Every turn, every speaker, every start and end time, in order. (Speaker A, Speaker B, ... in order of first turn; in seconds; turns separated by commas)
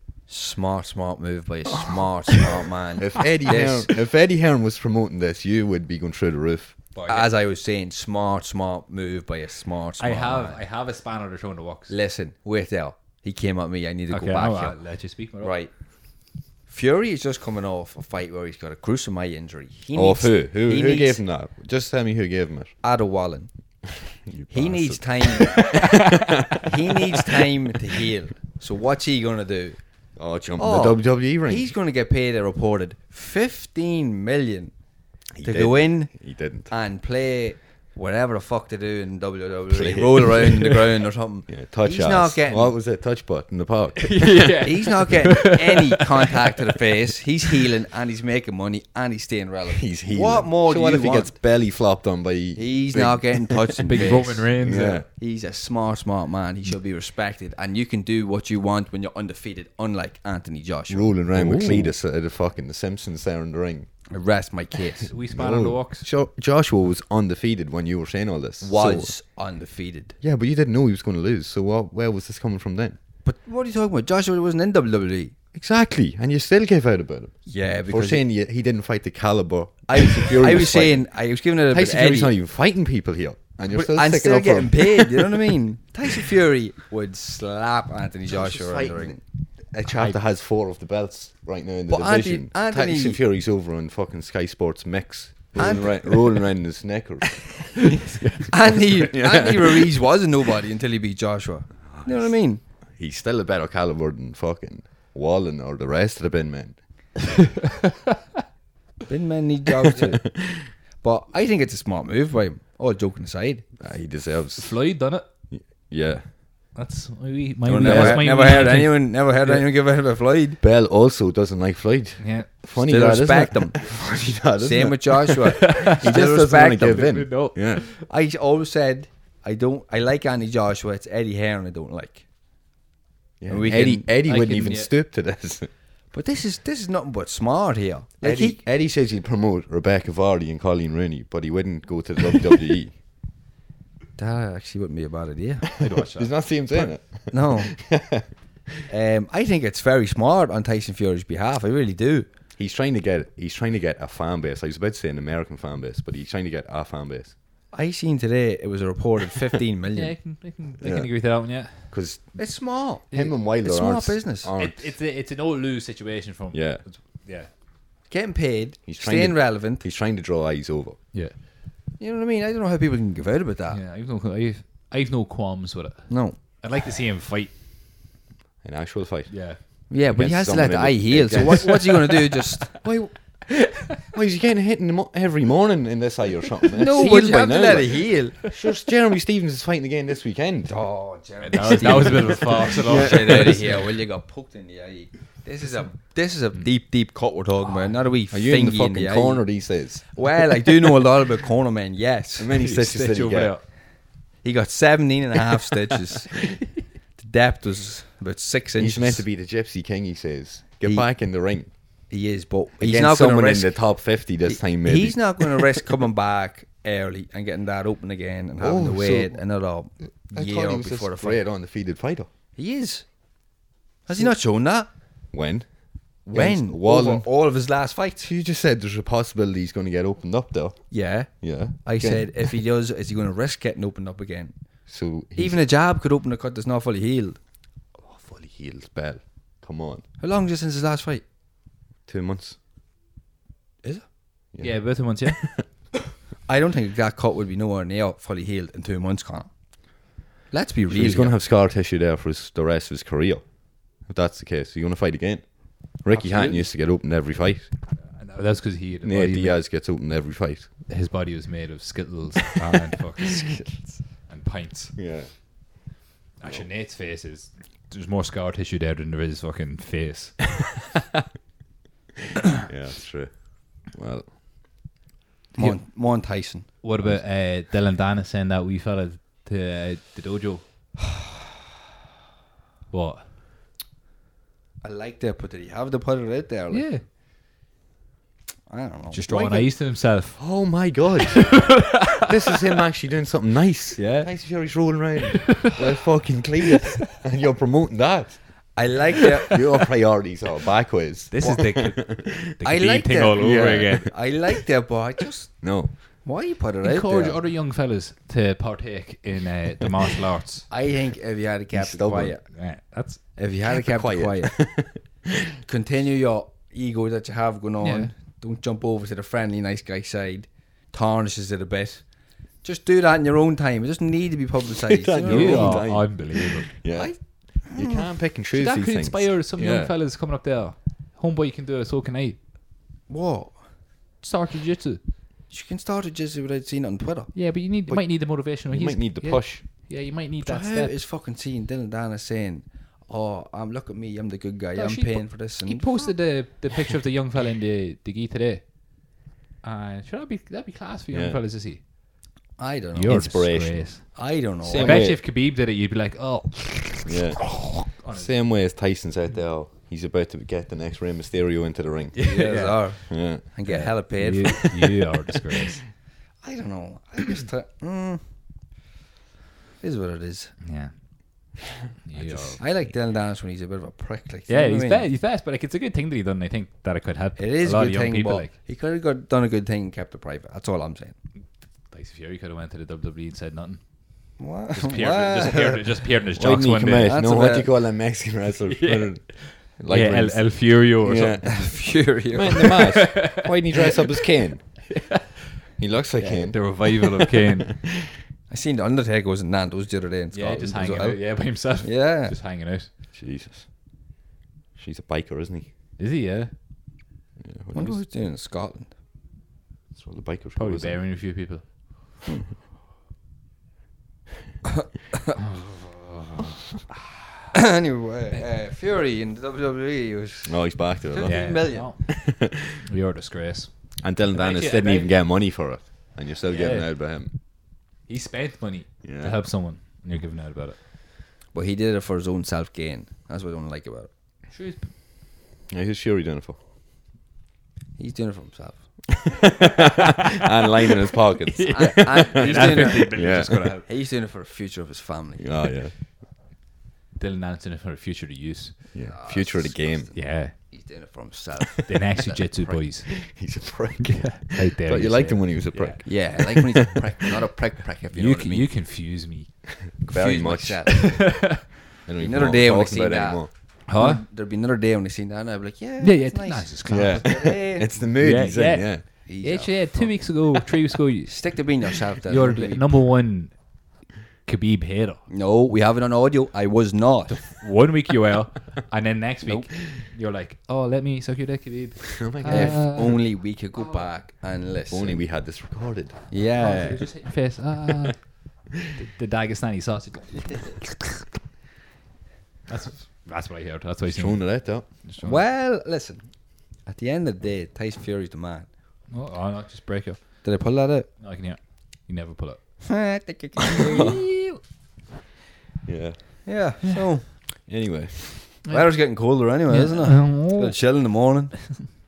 Speaker A: 0.3-4.0, Speaker B: 3.0-6.8, Speaker C: 6.9-7.3, Speaker A: 7.1-10.6, Speaker C: 10.0-12.0, Speaker A: 11.9-21.2, Speaker C: 14.1-15.6, Speaker B: 19.9-22.8, Speaker A: 22.8-23.5, Speaker B: 24.1-26.6, Speaker A: 24.5-26.0, Speaker A: 26.6-29.8, Speaker B: 30.2-31.8, Speaker A: 30.6-34.7, Speaker B: 35.4-36.7, Speaker A: 35.4-42.7, Speaker B: 39.7-44.6, Speaker C: 44.0-45.9, Speaker A: 44.6-51.4, Speaker B: 49.7-55.1, Speaker A: 52.6-61.2, Speaker C: 53.8-55.0, Speaker B: 60.9-63.9, Speaker C: 61.3-61.9, Speaker A: 64.1-65.1, Speaker C: 65.1-66.1, Speaker B: 65.2-69.1, Speaker A: 68.6-70.2, Speaker B: 70.2-73.0, Speaker A: 73.2-75.4, Speaker B: 75.5-85.5, Speaker A: 77.5-78.2, Speaker A: 79.9-82.3, Speaker A: 83.7-89.2, Speaker B: 88.3-89.2, Speaker B: 89.7-97.8, Speaker C: 89.9-90.2, Speaker A: 91.9-93.2, Speaker A: 95.5-96.3, Speaker C: 97.8-98.5, Speaker A: 98.5-102.6, Speaker B: 98.7-100.1, Speaker B: 101.8-102.3, Speaker B: 103.0-106.8, Speaker A: 109.1-113.7, Speaker B: 113.8-114.8, Speaker C: 114.6-115.3, Speaker B: 115.5-116.3, Speaker C: 116.7-119.5, Speaker A: 117.7-120.6, Speaker B: 117.8-118.7, Speaker B: 120.6-127.8, Speaker C: 122.2-122.5, Speaker A: 122.8-124.0, Speaker A: 124.6-127.1, Speaker C: 125.5-128.0, Speaker A: 128.0-132.3, Speaker B: 133.4-135.7, Speaker A: 133.5-134.1, Speaker C: 133.7-134.9, Speaker A: 136.1-138.6, Speaker B: 138.2-143.0, Speaker A: 144.2-145.7, Speaker C: 145.8-146.4, Speaker B: 146.1-148.3, Speaker A: 146.7-147.8, Speaker A: 148.9-152.3, Speaker B: 152.6-157.3, Speaker A: 157.7-160.1, Speaker C: 159.9-162.0, Speaker B: 160.8-165.0, Speaker A: 162.4-164.5, Speaker C: 164.6-167.5, Speaker B: 166.5-166.8, Speaker A: 168.1-169.9, Speaker B: 168.9-171.0, Speaker A: 172.0-173.8, Speaker C: 173.7-177.5, Speaker A: 176.1-176.4, Speaker B: 178.6-182.2, Speaker C: 179.3-179.6, Speaker A: 179.9-182.8, Speaker B: 182.8-190.7, Speaker A: 186.8-188.5, Speaker A: 190.7-202.5, Speaker C: 191.4-193.8, Speaker B: 192.8-193.7, Speaker B: 198.3-200.2, Speaker B: 202.4-203.6, Speaker C: 202.6-203.6, Speaker A: 204.4-206.5, Speaker A: 207.2-209.2, Speaker B: 208.8-211.8, Speaker A: 210.8-211.1, Speaker A: 211.9-221.4, Speaker B: 212.8-215.8, Speaker B: 218.6-219.4, Speaker B: 220.3-222.3, Speaker A: 222.6-223.2, Speaker A: 224.1-224.9, Speaker B: 225.3-227.3, Speaker A: 226.3-228.3, Speaker B: 228.2-232.6, Speaker A: 230.9-234.6, Speaker B: 234.9-235.6, Speaker A: 235.4-237.4, Speaker B: 238.0-240.0, Speaker A: 240.2-241.2, Speaker B: 242.1-242.6, Speaker B: 244.5-245.6, Speaker C: 244.6-245.4, Speaker A: 246.5-249.5, Speaker A: 250.5-251.3, Speaker B: 250.9-257.7, Speaker A: 256.1-256.6, Speaker C: 258.0-259.6, Speaker B: 259.0-260.7, Speaker C: 260.9-265.0, Speaker B: 265.0-266.7, Speaker C: 266.4-270.8, Speaker B: 272.6-274.4, Speaker A: 275.6-276.8, Speaker C: 275.6-275.8, Speaker C: 276.8-280.6, Speaker C: 282.9-283.3, Speaker A: 284.8-287.0, Speaker C: 286.7-287.0, Speaker A: 288.7-289.7, Speaker C: 289.1-290.8, Speaker B: 290.4-298.8, Speaker C: 291.5-292.2, Speaker C: 294.0-295.0, Speaker A: 298.7-299.6, Speaker B: 299.5-302.4, Speaker C: 301.3-304.3, Speaker A: 301.4-301.9, Speaker A: 302.6-307.4, Speaker B: 305.6-305.9, Speaker C: 306.8-310.7, Speaker A: 310.7-312.6, Speaker B: 311.7-312.4, Speaker C: 312.4-313.2, Speaker A: 313.4-314.7, Speaker B: 313.6-315.0, Speaker A: 315.6-326.0, Speaker C: 317.8-318.1, Speaker B: 324.9-329.9, Speaker C: 325.2-326.7, Speaker A: 326.9-328.1, Speaker C: 328.5-332.4, Speaker A: 333.1-333.7, Speaker C: 334.2-335.0, Speaker A: 335.5-337.3, Speaker C: 337.3-340.9, Speaker B: 337.9-339.6, Speaker A: 340.4-346.2, Speaker C: 344.8-349.1, Speaker C: 349.6-351.8, Speaker B: 351.1-351.4, Speaker A: 352.6-353.5, Speaker C: 352.9-358.3, Speaker B: 353.1-355.2, Speaker A: 354.1-355.1, Speaker B: 357.1-362.3, Speaker C: 362.2-365.8, Speaker A: 362.2-364.7, Speaker B: 363.1-363.7, Speaker A: 366.4-368.5, Speaker A: 369.8-370.6, Speaker C: 370.6-370.9, Speaker C: 372.1-372.9, Speaker B: 372.1-372.5, Speaker A: 372.6-375.1, Speaker C: 374.5-378.5, Speaker A: 377.4-381.2, Speaker C: 381.9-387.2, Speaker A: 384.4-385.8, Speaker B: 386.4-394.8, Speaker A: 387.1-387.7, Speaker C: 388.7-391.4, Speaker A: 391.4-392.8, Speaker C: 392.8-393.5, Speaker C: 394.9-395.2, Speaker B: 395.8-397.9, Speaker A: 396.2-396.5, Speaker C: 396.5-397.7, Speaker A: 398.5-402.4, Speaker C: 400.3-402.9, Speaker B: 403.1-403.7, Speaker B: 404.8-405.7, Speaker C: 406.0-406.5, Speaker B: 407.4-408.0, Speaker A: 407.7-408.9, Speaker B: 409.9-411.0, Speaker C: 410.6-411.6, Speaker A: 417.5-422.1, Speaker B: 420.4-422.4, Speaker C: 421.2-425.2, Speaker B: 424.0-427.3, Speaker C: 426.5-427.5, Speaker C: 428.1-430.8, Speaker B: 429.0-429.4, Speaker A: 431.5-434.1, Speaker C: 434.5-434.9, Speaker B: 435.7-436.6, Speaker A: 438.0-439.0, Speaker B: 439.4-443.8, Speaker C: 441.5-443.8, Speaker A: 441.7-445.7, Speaker B: 445.4-445.9, Speaker C: 447.2-449.0, Speaker B: 448.9-450.1, Speaker A: 449.0-452.8, Speaker C: 450.1-450.6, Speaker C: 451.9-453.4, Speaker B: 453.2-456.9, Speaker C: 454.1-456.1, Speaker A: 456.0-458.7, Speaker C: 458.1-459.7, Speaker B: 460.0-461.1, Speaker A: 460.1-461.7, Speaker C: 460.9-461.6, Speaker B: 462.1-463.5, Speaker A: 462.2-467.9, Speaker C: 463.9-464.2, Speaker C: 466.0-475.2, Speaker B: 466.9-469.1, Speaker A: 469.3-470.3, Speaker A: 471.3-473.0, Speaker A: 475.3-477.5, Speaker C: 477.3-484.1, Speaker B: 482.1-483.2, Speaker A: 482.5-485.3, Speaker B: 484.9-486.3, Speaker A: 486.3-487.1, Speaker C: 486.6-490.9, Speaker C: 492.7-495.4, Speaker B: 494.1-494.9, Speaker A: 495.2-498.7, Speaker C: 499.1-500.5, Speaker A: 500.4-501.1, Speaker C: 501.1-502.9, Speaker A: 502.9-504.3, Speaker C: 503.8-504.6, Speaker B: 503.8-504.3, Speaker B: 505.9-506.4, Speaker A: 506.4-507.5, Speaker B: 507.6-508.6, Speaker C: 508.6-510.8, Speaker A: 508.7-511.8